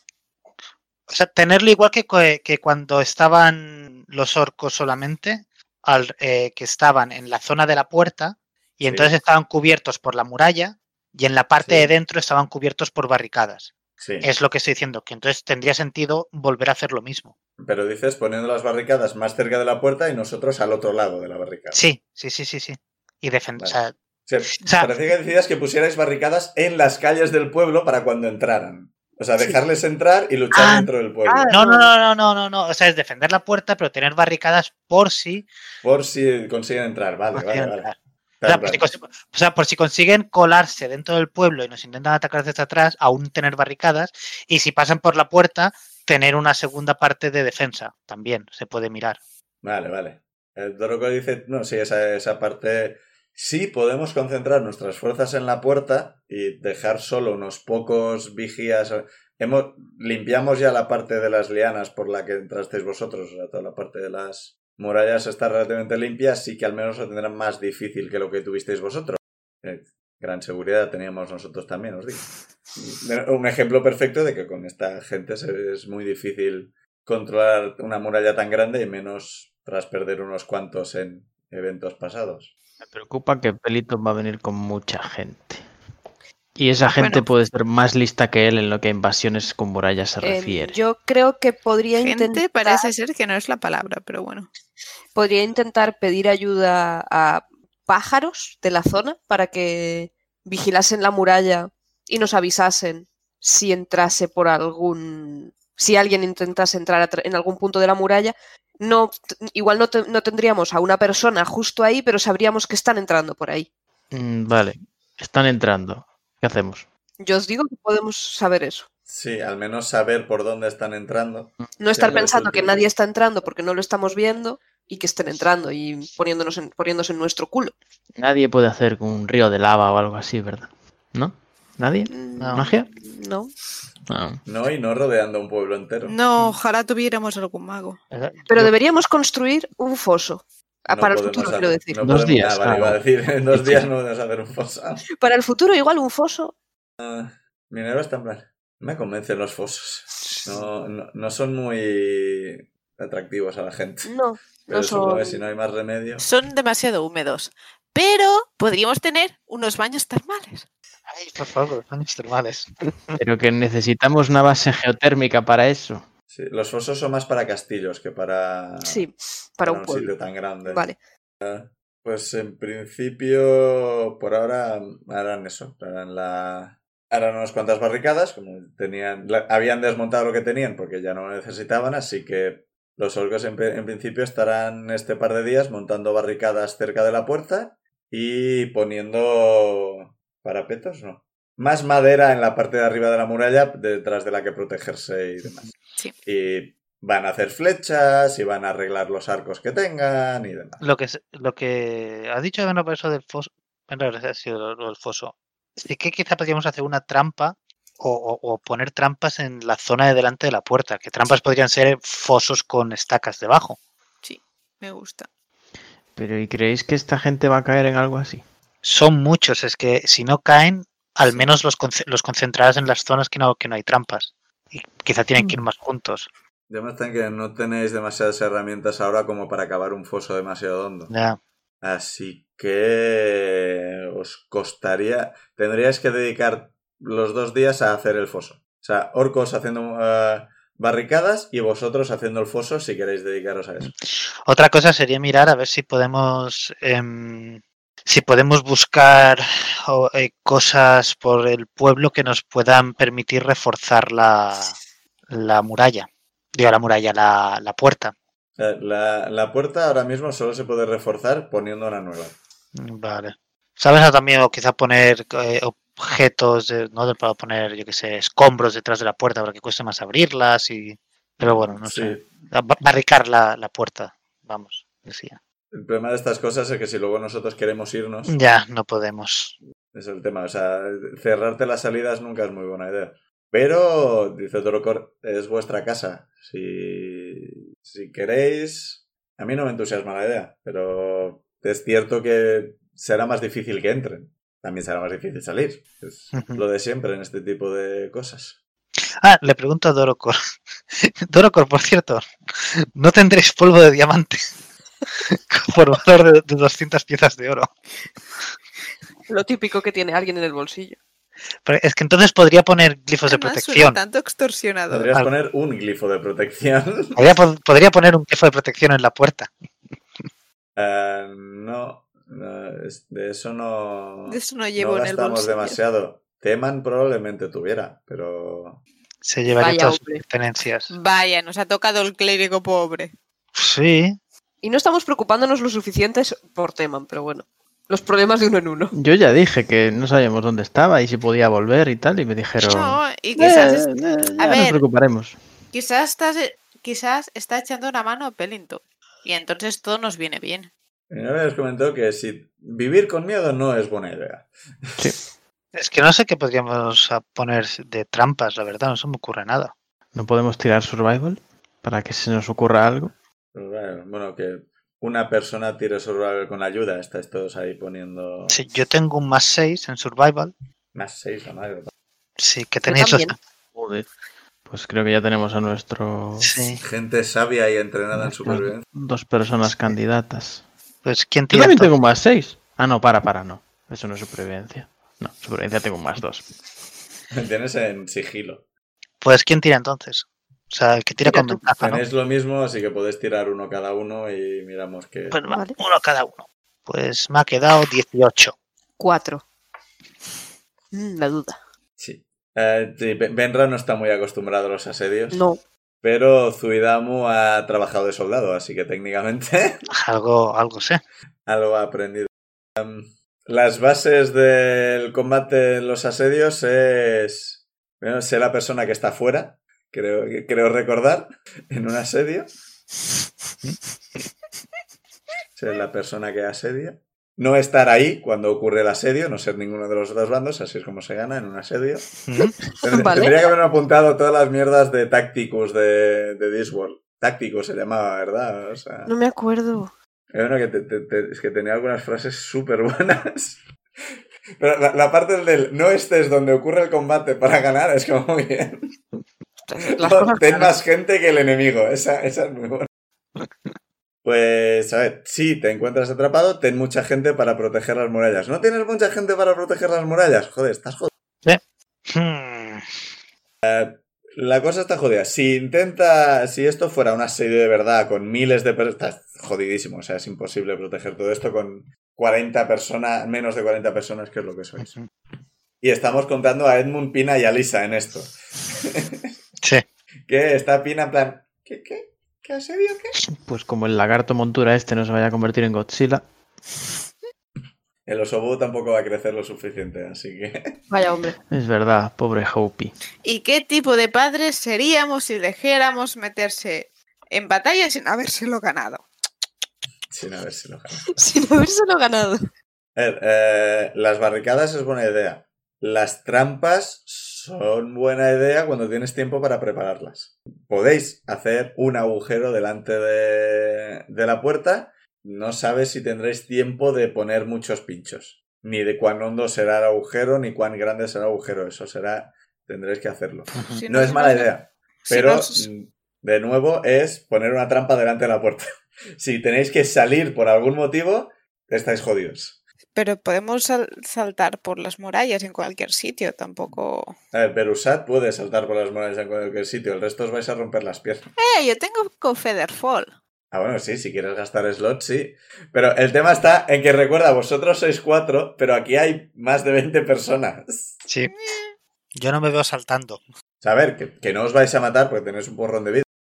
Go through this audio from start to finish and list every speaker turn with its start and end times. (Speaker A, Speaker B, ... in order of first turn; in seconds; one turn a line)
Speaker A: 1.1-17.3
Speaker B: 8.9-9.1
Speaker B: 11.6-11.9
Speaker B: 14.0-14.3
Speaker B: 17.6-21.8
Speaker A: 21.7-23.9
Speaker B: 23.6-31.5
Speaker A: 24.6-24.9
Speaker A: 30.5-30.9
Speaker C: 31.4-31.8
Speaker A: 31.5-35.5
Speaker B: 35.8-38.8
Speaker A: 37.3-37.9
Speaker A: 38.5-49.2
Speaker B: 49.6-82.5
Speaker D: 82.9-85.6
Speaker D: 86.6-90.8
Speaker E: 87.0-87.2
Speaker C: 90.2-92.9
Speaker E: 92.0-94.5
Speaker C: 95.1-113.7
Speaker D: 114.1-116.8
Speaker C: 117.2-118.9
Speaker B: 119.1-122.8
Speaker C: 121.8-127.7
Speaker D: 128.2-132.9
Speaker C: 132.1-133.5
Speaker A: 132.4-132.7
Speaker D: 134.1-134.4
Speaker B: 134.4-136.2
Speaker E: 136.1-138.0
Speaker A: 138.1-138.7
Speaker C: 138.5-142.0
Speaker B: 140.9-145.0
Speaker D: 142.0-143.0
Speaker D: 143.5-143.9
Speaker C: 145.1-146.5
Speaker B: 147.0-154.1
Speaker A: 150.4-150.7
Speaker C: 154.0-155.4
Speaker B: 154.7-156.2
Speaker E: 156.2-160.7
Speaker A: 161.1-163.2
Speaker D: 163.2-166.0
Speaker B: 166.3-169.1
Speaker C: 168.8-170.1
Speaker B: 169.6-170.8
Speaker C: 170.6-171.0
Speaker B: 171.4-195.7
Speaker B: 196.2-200.8
Speaker A: 200.8-213.8
Speaker E: 214.2-215.3
Speaker D: 216.2-218.4
Speaker A: 218.8-226.3
Speaker B: 226.7-231.1
Speaker A: 231.1-231.4
Speaker B: 231.8-243.9
Speaker A: 243.8-254.8
Speaker A: 255.3-258.1
Speaker B: 258.6-262.4
Speaker A: 262.7-275.4
Speaker B: 271.4-272.3
Speaker B: 275.7-278.3
Speaker A: 278.2-279.6
Speaker B: 279.9-298.6
Speaker A: 296.3-296.6
Speaker A: 299.2-300.4
Speaker A: 300.9-304.5
Speaker A: 305.1-307.7
Speaker C: 309.3-311.0
Speaker A: 311.6-314.0
Speaker E: 313.3-315.1
Speaker B: 314.9-317.2
Speaker A: 317.1-319.5
Speaker B: 320.8-328.8
Speaker E: 324.3-325.8
Speaker A: 329.2-330.9
Speaker C: 329.6-330.2
Speaker E: 330.9-333.1
Speaker A: 333.5-334.2
Speaker C: 334.6-338.9
Speaker D: 338.9-345.4
Speaker E: 342.6-344.8
Speaker E: 345.7-350.7
Speaker B: 351.1-354.5
Speaker A: 355.7-359.7
Speaker D: 360.1-363.1
Speaker B: 363.5-368.6
Speaker A: 368.5-370.5
Speaker B: 370.9-371.9
Speaker A: 372.4-373.4
Speaker C: 372.9-373.3
Speaker D: 373.7-374.1
Speaker D: 374.6-376.6
Speaker A: 376.4-376.8
Speaker B: 376.8-378.8
Speaker D: 378.1-380.6
Speaker A: 381.0-381.9
Speaker D: 381.5-386.5
Speaker B: 387.3-388.6
Speaker A: 389.2-392.0
Speaker C: 391.2-391.6
Speaker B: 391.8-395.4
Speaker A: 395.3-398.5
Speaker C: 395.5-395.8
Speaker C: 399.0-399.4
Speaker C: 400.9-401.6
Speaker B: 402.0-405.4
Speaker C: 405.3-405.6
Speaker B: 406.0-409.9
Speaker A: 409.9-411.0
Speaker B: 411.4-422.5
Speaker B: 425.6-432.1
Speaker A: 432.2-432.5
Speaker C: 432.4-433.4
Speaker B: 432.8-439.1
Speaker C: 439.1-439.9
Speaker B: 440.3-443.6
Speaker B: 444.6-448.9
Speaker C: 449.7-450.7
Speaker B: 450.0-452.9
Speaker B: 454.2-461.1
Speaker A: 461.4-462.9
Speaker B: 463.6-474.9
Speaker A: 474.8-475.0
Speaker B: 475.8-479.3
Speaker B: 480.3-483.2
Speaker D: 483.3-486.2
Speaker B: 488.1-490.8
Speaker C: 490.9-491.4
Speaker D: 491.5-492.9
Speaker E: 493.2-499.0
Speaker B: 500.1-501.3
Speaker C: 501.1-502.5
Speaker B: 502.9-528.7
Speaker A: 523.5-523.8
Speaker E: 523.7-524.5
Speaker E: 525.0-525.7
Speaker B: 529.2-532.6
Speaker E: 532.9-537.1
Speaker B: 537.3-541.3
Speaker E: 541.4-543.1
Speaker B: 543.5-551.0
Speaker E: 551.3-551.7
Speaker A: 552.1-553.2
Speaker B: 553.6-556.1